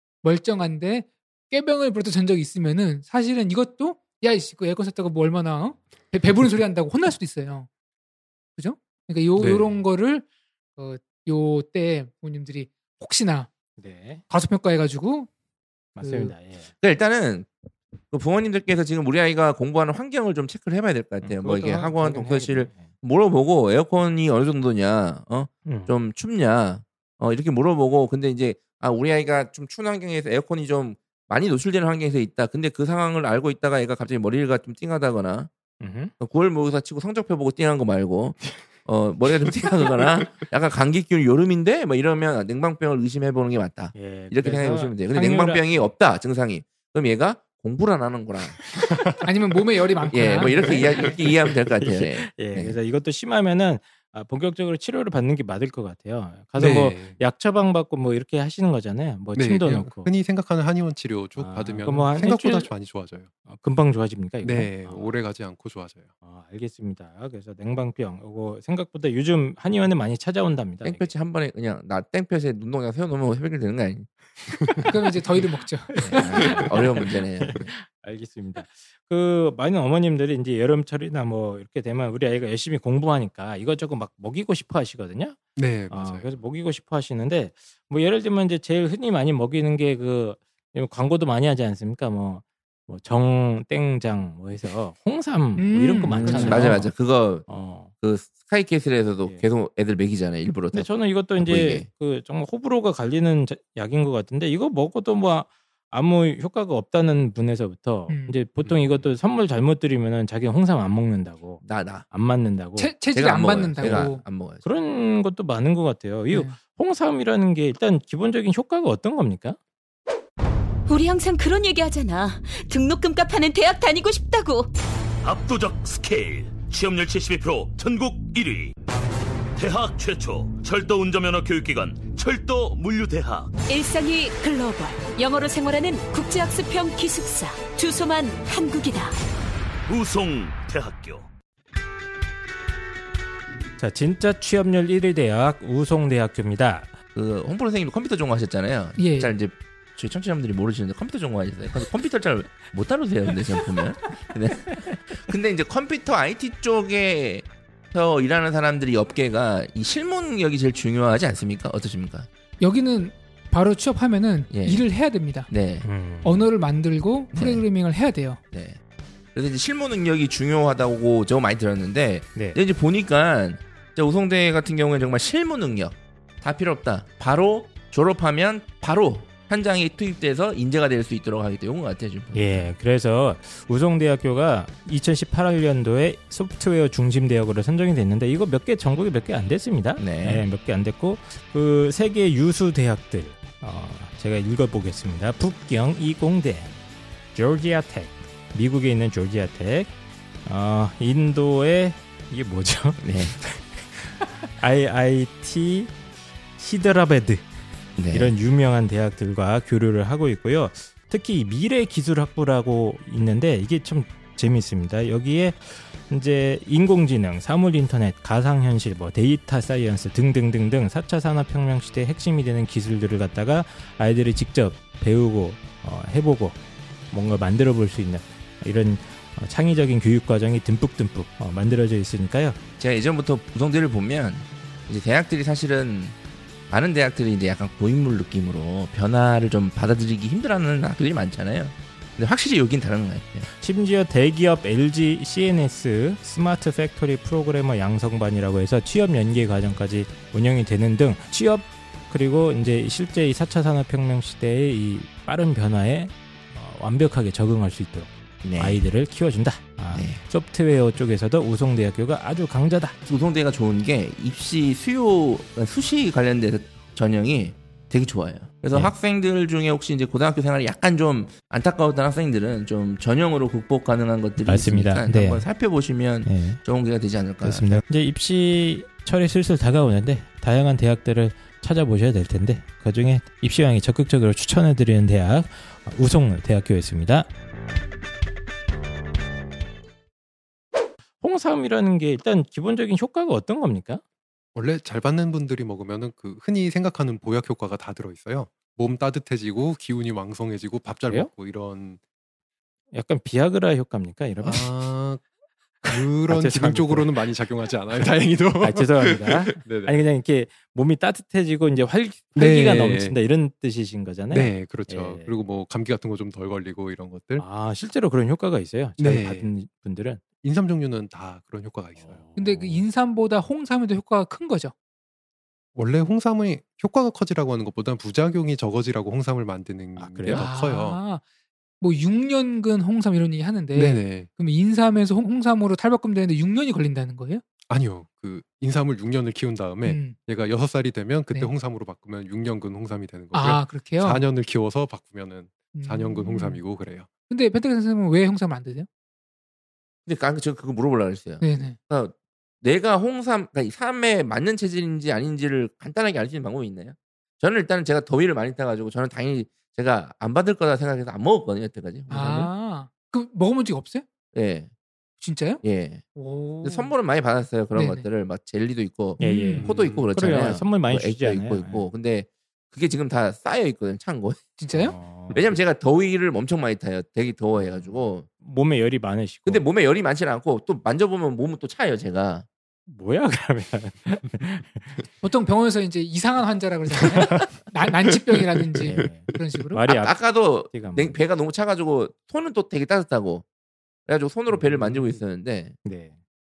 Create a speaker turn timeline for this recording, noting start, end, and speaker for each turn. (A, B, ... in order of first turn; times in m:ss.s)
0:00.2-0:07.7 A
0:08.6-0:10.2 A
0:09.4-0:09.8 B
0:10.8-0:13.5 A
0:13.8-0:14.2 C
0:14.3-0:15.3 A
0:16.0-0:16.7 C
0:16.0-0:16.3 A
0:16.8-0:17.5 D
0:18.1-0:35.5 D
0:21.2-0:22.9 C
0:25.6-0:25.9 C
0:35.8-0:36.1 C
0:36.2-0:48.6 D
0:43.9-0:45.9 C
0:49.2-0:51.2 A
0:50.1-0:52.8 D
0:50.6-0:51.2 C
0:51.8-1:00.1 C
0:56.6-0:57.2 B
0:59.3-1:03.3 B
1:01.4-1:02.7 C
1:03.4-1:05.1 C
1:04.4-1:06.1 B
1:06.2-1:11.1 C
1:10.8-1:14.1 D
1:14.8-1:16.6 A
1:15.9-1:36.9 C
1:16.0-1:17.7 D
1:25.6-1:26.3 B
1:35.6-1:36.8 A
1:36.2-1:37.5 D
1:37.5-1:37.9 C
1:38.0-1:41.9 D
1:40.7-1:52.9 C
1:48.1-1:48.4 A
1:48.6-1:49.0 B
1:51.6-1:52.1 D
1:52.8-1:54.2 A
1:53.1-1:54.6 D
1:53.8-1:54.1 C
1:54.6-1:59.6 C
1:56.3-1:56.6 A
2:00.9-2:04.4 E
2:05.2-2:08.7 F
2:09.6-2:13.5 F
2:13.7-2:19.1 E
2:19.9-2:21.3 F
2:23.8-2:26.9 C
2:27.1-2:42.3 D
2:29.0-2:29.3 A
2:42.6-2:45.5 A
2:44.5-2:44.8 D
2:45.5-2:45.8 D
2:45.8-2:46.5 C
2:46.2-2:48.4 A
2:47.3-2:47.6 D
2:48.5-2:48.8 D
2:49.3-3:02.7 D
3:02.3-3:16.7 C
3:10.0-3:10.4 D
3:17.3-3:19.9 C
3:20.4-3:23.6 C
3:23.0-3:23.4 D
3:24.6-3:25.9 C
3:26.6-3:27.4 C
3:28.0-3:28.3 D
3:28.1-3:46.6 C
3:47.1-3:52.6 C
3:52.8-3:56.2 D
3:56.7-4:03.5 D
4:03.5-4:23.0 C
4:18.4-4:18.8 D
4:19.9-4:20.2 D
4:23.0-4:37.8 D
4:34.4-4:35.4 C
4:36.2-4:36.6 C
4:37.4-4:47.3 C
4:51.2-4:54.0 C
4:54.5-5:02.0 B
5:02.9-5:04.7 C
5:04.4-5:05.2 B
5:05.8-5:07.2 C
5:05.9-5:10.0 B
5:08.6-5:15.4 C
5:12.3-5:13.2 B
5:14.3-5:17.4 B
5:17.4-5:20.2 C
5:19.0-5:19.5 B
5:20.4-5:22.2 B
5:22.0-5:22.9 C
5:22.4-5:24.7 A
5:25.8-5:31.0 B
5:30.0-5:30.5 C
5:30.3-5:31.2 A
5:31.8-5:37.4 A
5:33.7-5:34.3 B
5:37.7-5:47.1 B
5:39.8-5:40.2 A
5:43.3-5:44.2 A
5:45.7-5:46.6 A
5:47.3-5:48.9 A
5:50.0-6:02.5 D
5:51.4-5:51.8 A
6:02.1-6:04.0 A
6:02.1-6:02.5 C
6:04.3-6:04.7 D
6:05.2-6:05.6 A
6:05.6-6:06.0 D
6:06.1-6:06.9 A
6:06.6-6:14.5 D
6:07.7-6:08.1 A
6:09.2-6:09.8 A
6:09.2-6:11.8 C
6:14.6-6:15.0 A
6:14.7-6:15.6 C
6:15.3-6:18.2 D
6:17.8-6:19.6 C
6:19.4-6:22.4 D
6:22.9-6:25.0 C
6:25.2-6:29.8 A
6:27.0-6:27.6 C
6:28.8-6:31.2 C
6:29.9-6:33.4 D
6:34.1-6:35.8 D
6:34.5-6:35.2 C
6:35.8-6:36.2 C